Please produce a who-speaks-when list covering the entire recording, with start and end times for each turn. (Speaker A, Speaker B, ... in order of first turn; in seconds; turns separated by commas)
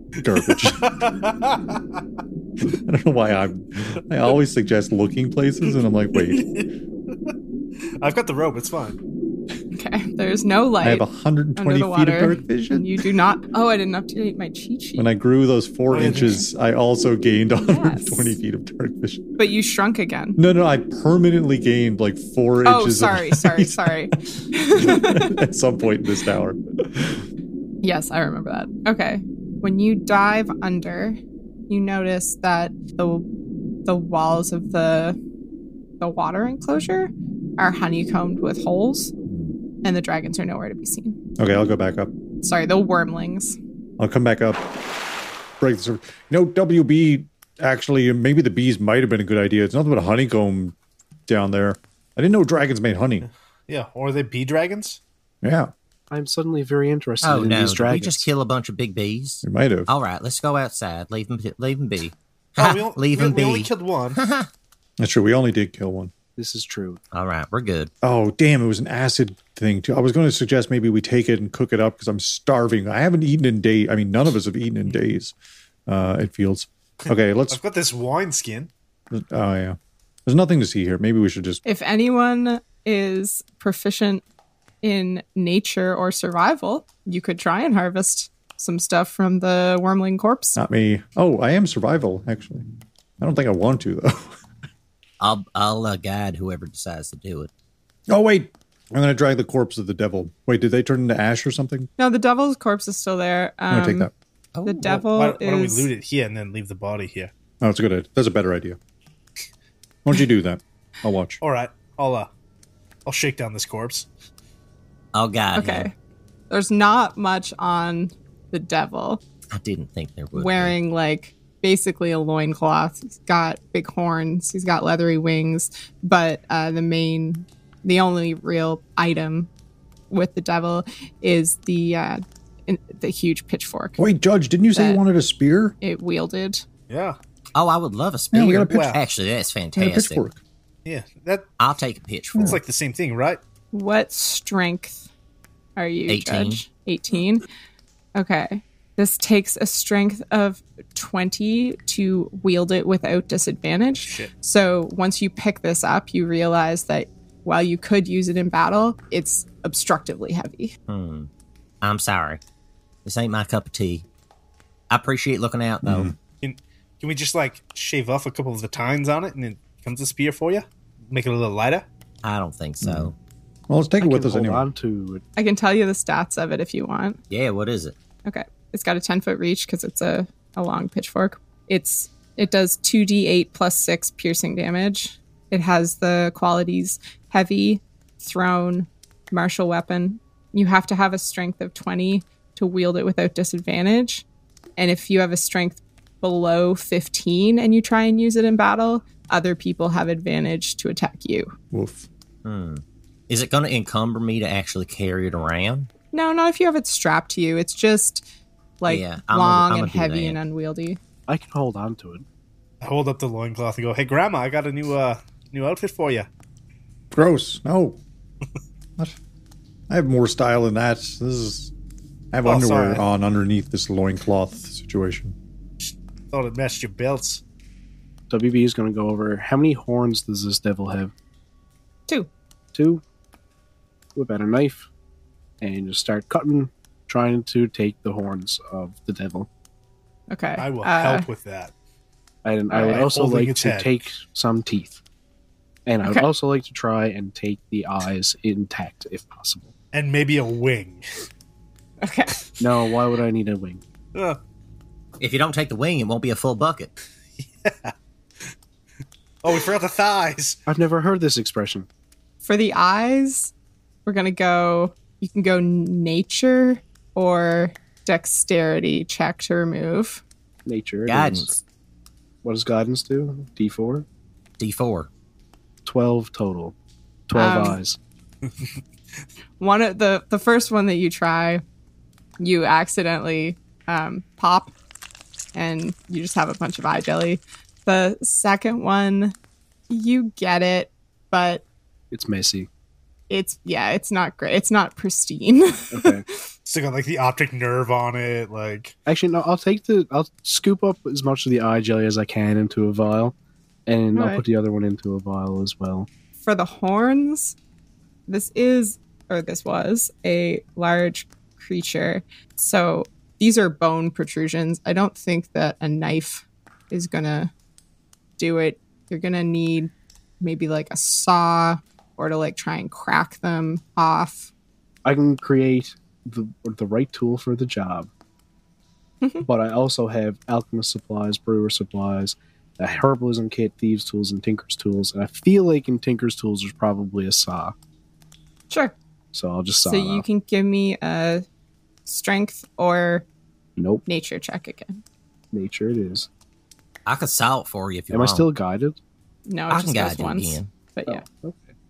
Speaker A: 0.2-0.9, Speaker B: 0.4-2.0, Speaker A: 2.7-6.5, Speaker B: 6.1-7.3, Speaker B: 8.0-9.0, Speaker C: 9.7-11.1, Speaker A: 10.8-12.9, Speaker C: 11.6-15.1, Speaker A: 15.0-19.2, Speaker B: 15.9-16.4, Speaker C: 16.0-16.4, Speaker C: 17.6-18.4, Speaker C: 19.4-20.4, Speaker A: 20.4-24.2, Speaker C: 22.6-25.4, Speaker A: 24.7-27.2, Speaker C: 27.8-31.2, Speaker C: 31.7-33.2, Speaker C: 33.8-35.2, Speaker C: 36.0-39.1, Speaker A: 39.2-39.5, Speaker C: 39.8-41.2, Speaker A: 41.4-42.1, Speaker C: 42.4-43.6, Speaker A: 44.0-44.6, Speaker A: 45.6-50.8, Speaker A: 51.3-53.3, Speaker B: 53.3-55.0, Speaker A: 55.4-55.7, Speaker D: 56.1-58.3, Speaker E: 57.2-64.5, Speaker A: 59.4-59.9, Speaker B: 62.6-64.2, Speaker A: 65.0-66.1, Speaker D: 66.4-67.0, Speaker E: 67.1-67.9, Speaker A: 68.0-75.3, Speaker A: 75.9-77.6, Speaker B: 77.1-78.7, Speaker A: 79.1-81.6, Speaker C: 81.6-84.2, Speaker C: 84.8-90.6, Speaker A: 90.5-92.6, Speaker A: 93.2-94.4, Speaker E: 95.2-97.5, Speaker A: 98.1-101.9, Speaker C: 102.0-104.1, Speaker A: 103.7-104.1, Speaker E: 104.5-104.8, Speaker C: 104.6-105.9, Speaker B: 104.8-107.3, Speaker A: 107.6-108.8, Speaker A: 110.0-111.4, Speaker B: 111.4-112.3, Speaker B: 113.0-114.1, Speaker E: 115.1-115.9, Speaker C: 115.5-115.9, Speaker C: 116.5-119.2, Speaker E: 119.5-120.7, Speaker C: 120.3-129.5, Speaker C: 130.1-134.0, Speaker A: 134.0-135.8, Speaker C: 134.7-135.0, Speaker C: 135.8-136.6, Speaker B: 136.9-137.2, Speaker E: 137.5-140.2, Speaker A: 138.3-138.9, Speaker B: 138.7-139.0, Speaker A: 139.8-140.4, Speaker B: 140.8-141.4, Speaker E: 141.6-142.6, Speaker B: 142.4-143.4, Speaker C: 143.7-145.1, Speaker C: 145.8-147.4, Speaker E: 146.1-146.6, Speaker C: 148.2-160.7, Speaker B: 154.0-154.3, Speaker E: 160.9-161.3, Speaker E: 161.8-162.4, Speaker E: 163.0-164.0, Speaker E: 164.9-166.1, Speaker A: 165.8-166.2, Speaker B: 166.4-171.8, Speaker E: 172.2-173.1, Speaker A: 172.8-173.1, Speaker A: 173.7-174.7, Speaker D: 174.0-175.2, Speaker C: 175.3-177.2, Speaker E: 177.3-177.9, Speaker C: 178.2-194.2, Speaker C: 194.8-201.5, Speaker A: 201.7-202.1, Speaker E: 202.4-205.9, Speaker C: 206.1-208.3, Speaker C: 208.8-211.0, Speaker E: 208.8-210.4, Speaker D: 211.3-212.2, Speaker B: 212.8-216.3, Speaker A: 217.1-218.0, Speaker A: 219.9-221.7, Speaker A: 222.3-225.3, Speaker B: 222.4-223.0, Speaker B: 225.8-227.4, Speaker D: 228.3-231.1, Speaker D: 232.7-233.0, Speaker D: 234.1-234.9, Speaker D: 235.6-239.5, Speaker C: 240.3-241.3, Speaker B: 240.6-241.7, Speaker D: 242.4-245.0, Speaker B: 242.7-243.9, Speaker D: 245.8-249.7, Speaker B: 249.9-251.1, Speaker C: 252.0-252.5, Speaker D: 252.6-253.8, Speaker E: 255.2-256.9, Speaker B: 257.4-258.5, Speaker B: 259.4-260.6, Speaker D: 260.7-261.9, Speaker C: 262.4-263.5, Speaker C: 264.1-270.2, Speaker D: 270.6-271.5, Speaker E: 271.1-271.6, Speaker D: 272.4-274.1, Speaker E: 274.6-275.1, Speaker D: 275.9-276.7, Speaker D: 277.3-278.0, Speaker C: 277.3-277.8, Speaker B: 278.5-278.8, Speaker C: 279.6-281.6, Speaker C: 282.4-284.7, Speaker C: 285.5-289.3, Speaker C: 289.9-291.6, Speaker D: 292.1-292.7, Speaker C: 293.3-296.4, Speaker D: 295.9-296.2, Speaker B: 296.6-298.9, Speaker D: 299.1-303.3, Speaker D: 303.9-306.1, Speaker C: 304.1-304.4, Speaker C: 306.4-307.6, Speaker C: 308.3-317.5, Speaker C: 318.4-324.5, Speaker D: 325.0-328.1, Speaker D: 329.4-337.7, Speaker C: 338.7-338.9, Speaker D: 339.3-340.2, Speaker C: 339.9-341.4, Speaker C: 342.1-343.2, Speaker D: 343.8-344.0, Speaker C: 344.1-345.0, Speaker D: 345.5-346.3, Speaker E: 347.1-348.5, Speaker D: 348.1-349.0, Speaker C: 349.4-351.2, Speaker E: 349.7-350.7, Speaker D: 351.1-351.7